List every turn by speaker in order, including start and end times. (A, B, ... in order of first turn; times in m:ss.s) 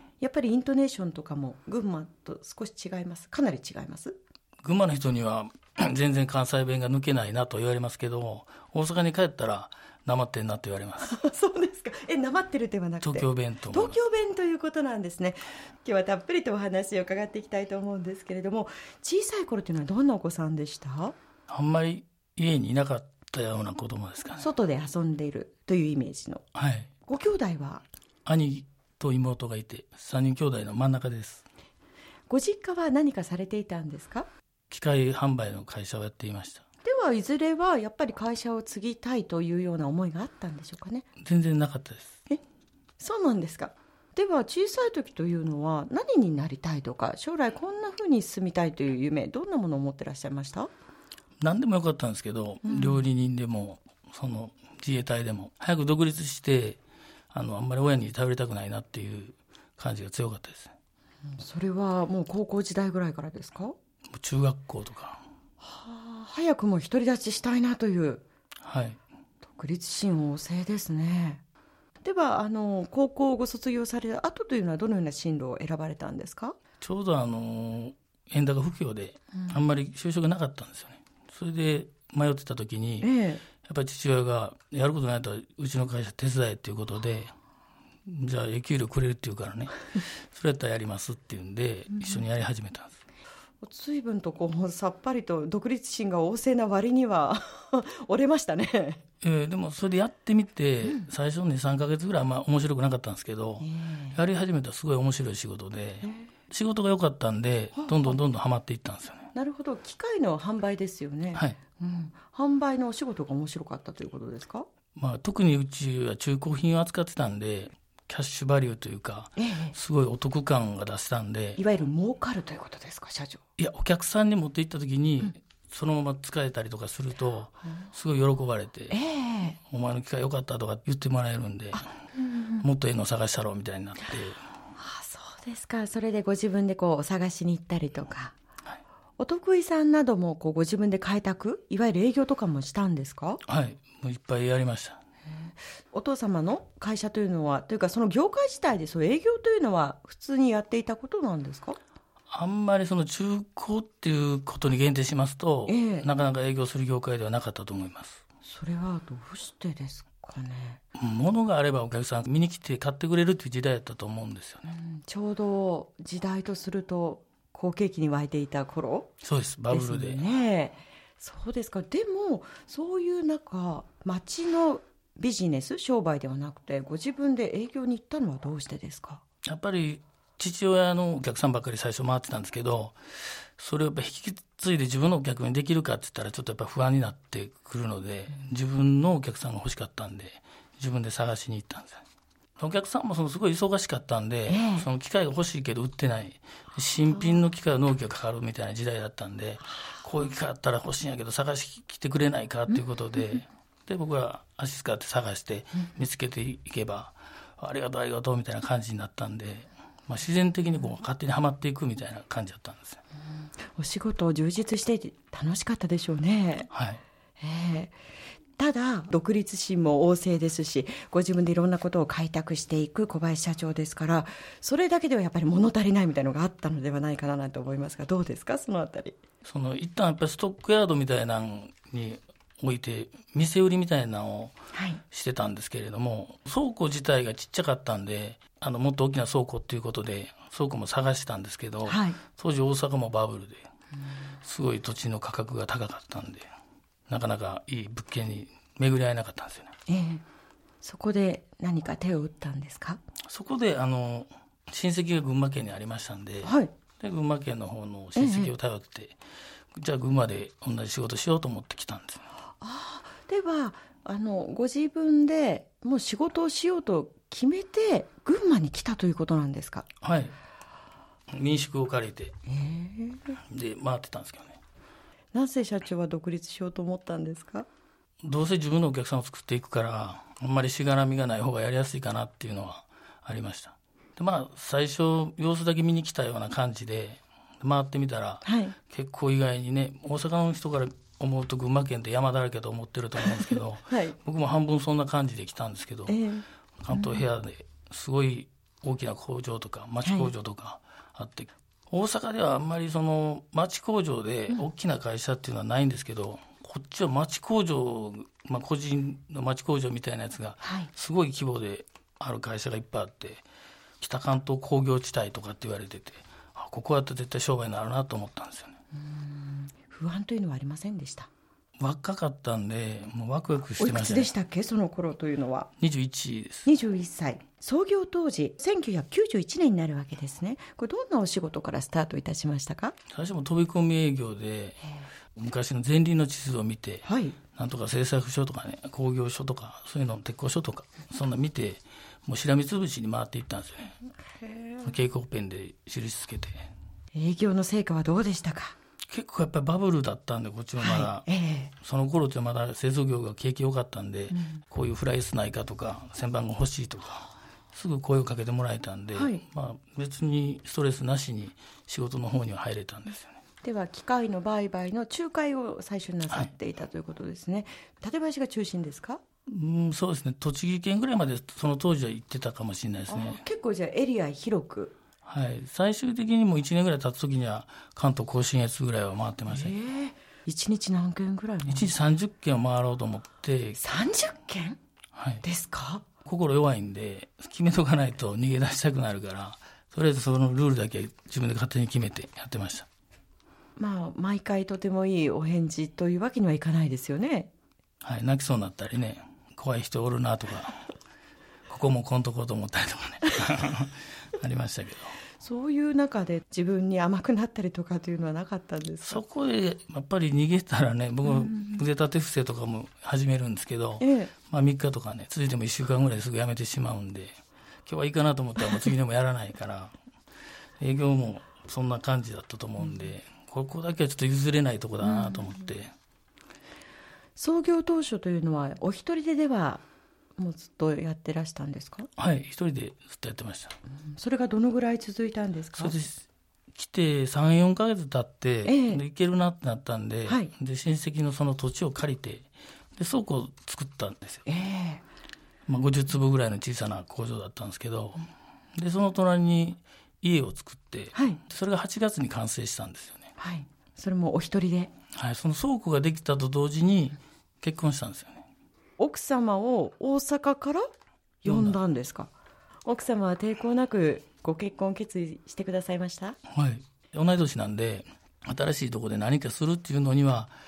0:00.2-0:04.2 A
0:04.6-0:11.2 B
0:11.0-0:21.2 A
0:13.0-0:14.0 B
0:21.5-0:24.5 B
0:24.4-0:26.4 A
0:26.6-0:26.9 B
0:27.1-0:27.8 A
0:28.2-0:31.5 B
0:32.3-0:34.3 A
0:34.7-0:36.6 B
0:36.8-0:41.1 A
0:41.2-0:42.2 B
0:43.0-0:50.7 A
0:51.4-0:56.8 B
0:52.6-0:53.0 A
0:57.3-1:00.7 B
1:01.3-1:03.8 A
1:04.1-1:05.2 B
1:05.6-1:08.2 A
1:08.6-1:09.0 B
1:09.5-1:11.4 A
1:12.0-1:16.6 A
1:16.8-1:27.3 B
1:23.0-1:23.4 A
1:28.1-1:33.0 B
1:33.6-1:39.0 A
1:39.2-1:49.3 B
1:43.6-1:44.2 A
1:47.8-1:48.2 A
1:49.3-1:54.7 A
1:55.0-2:01.6 B
1:59.4-1:59.8 A
2:01.6-2:03.4 A
2:03.6-2:09.0 B
2:08.9-2:09.6 A
2:09.7-2:11.9 B
2:11.8-2:12.6 A
2:12.6-2:14.5 B
2:14.8-2:18.4 A
2:19.2-2:23.4 A
2:23.5-2:25.0 B
2:25.3-2:31.8 A
2:32.3-2:38.2 B
2:35.7-2:36.1 A
2:38.4-2:40.8 A
2:41.0-2:44.7 B
2:44.7-2:49.2 A
2:49.2-2:50.3 B
2:49.7-2:59.2 A
2:59.5-3:12.0 B
3:12.6-3:33.0 B
3:14.5-3:14.9 A
3:33.3-3:36.7 A
3:36.7-3:37.0 B
3:37.4-3:38.0 A
3:38.6-3:49.2 A
3:49.4-3:54.6 B
3:54.7-3:55.0 A
3:55.1-4:03.7 B
4:01.9-4:02.2 A
4:04.4-4:06.5 B
4:07.1-4:09.7 B
4:09.9-4:10.2 A
4:10.8-4:13.0 A
4:13.3-4:19.2 B
4:16.4-4:16.7 A
4:18.2-4:18.5 A
4:19.7-4:22.3 B
4:22.6-4:29.9 A
4:30.0-4:30.4 B
4:31.3-4:32.4 B
4:32.5-4:33.4 A
4:33.5-4:34.6 B
4:35.3-4:37.7 A
4:38.2-4:56.2 B
4:48.4-4:48.8 A
4:53.4-4:54.2 A
4:56.1-4:57.2 A
4:56.8-5:13.4 B
5:00.0-5:00.3 A
5:10.6-5:10.9 A
5:14.0-5:18.8 B
5:18.9-5:21.3 A
5:21.8-5:24.3 B
5:23.8-5:25.7 A
5:25.8-5:26.7 B
5:26.7-5:33.0 A
5:33.1-5:34.8 B
5:35.4-5:44.0 B
5:37.0-5:37.4 A
5:44.2-5:45.0 A
5:44.8-5:46.7 B
5:47.1-5:48.8 A
5:49.1-6:03.4 B
5:50.8-5:51.7 A
5:54.3-5:54.6 A
5:59.2-5:59.4 A
6:03.6-6:09.2 A
6:09.5-6:13.4 B
6:13.1-6:15.0 A
6:15.3-6:19.8 B
6:19.5-6:21.9 A
6:21.7-6:23.8 B
6:23.8-6:24.8 A
6:25.1-6:25.4 B
6:25.4-6:26.1 A
6:26.2-6:32.9 B
6:33.8-6:37.5 A
6:38.0-6:40.8 B
6:41.7-6:45.2 B
6:45.4-6:49.2 A
6:49.0-6:57.3 B
6:51.3-6:51.8 A
6:54.0-6:54.3 A
6:57.9-7:00.0 B
7:00.8-7:05.9 B
7:05.0-7:05.6 A
7:07.4-7:09.8 A
7:10.4-7:12.1 A
7:12.2-7:13.8 B
7:13.9-7:16.0 A
7:15.8-7:16.2 B
7:16.7-7:24.4 B
7:18.6-7:19.0 A
7:20.3-7:20.5 A
7:24.5-7:25.0 A
7:25.7-7:33.3 B
7:31.1-7:31.4 A
7:33.4-7:34.9 A
7:35.1-7:38.4 B
7:39.0-7:40.9 A
7:41.4-7:42.3 A
7:41.4-7:41.8 B
7:42.9-7:46.4 A
7:46.5-7:50.5 B